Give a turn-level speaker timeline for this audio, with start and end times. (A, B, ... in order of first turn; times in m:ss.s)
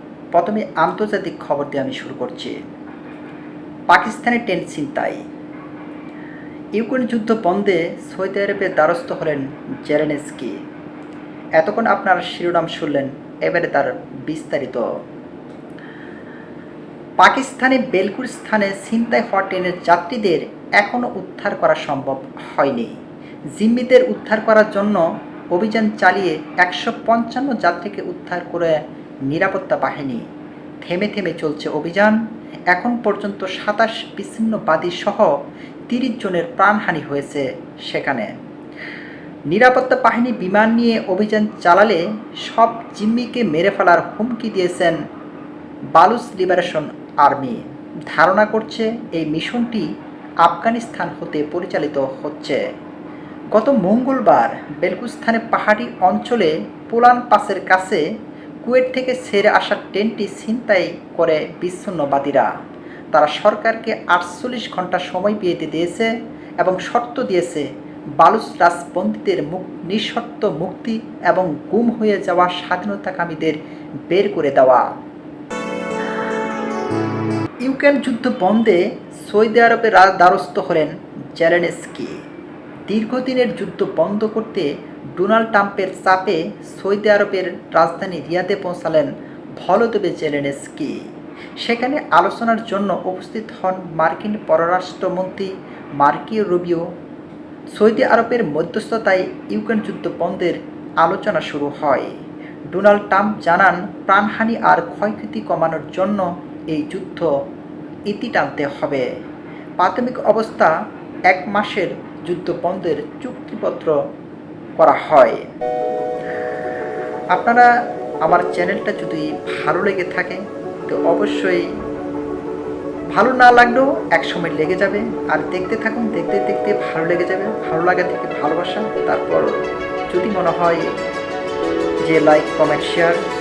0:00.3-0:02.6 A
0:03.9-0:05.2 A
0:06.8-0:10.6 A
0:11.6-0:14.9 A
0:17.2-0:23.0 A
0:23.6-0:30.2 A
0:30.8-0:32.2 A
0:32.7-0:35.4 A
0:35.9-0:38.3 A
0:39.5-0:45.0 A
0:46.0-0:49.9 A
0:50.4-0:52.6 A
0:53.5-0:58.0 A
0:58.6-1:02.5 A
1:03.1-1:07.7 A
1:08.2-1:14.8 A
1:17.6-1:22.2 A
1:22.9-1:31.0 A
1:31.6-1:36.8 A
1:37.7-1:42.1 A
1:42.7-1:47.3 A
1:48.1-1:49.1 A
1:49.8-1:50.7 A
1:51.3-1:54.0 A
1:54.8-1:55.4 A
1:57.3-1:57.7 A
1:58.2-2:01.7 A
2:03.1-2:10.9 A
2:12.0-2:13.2 A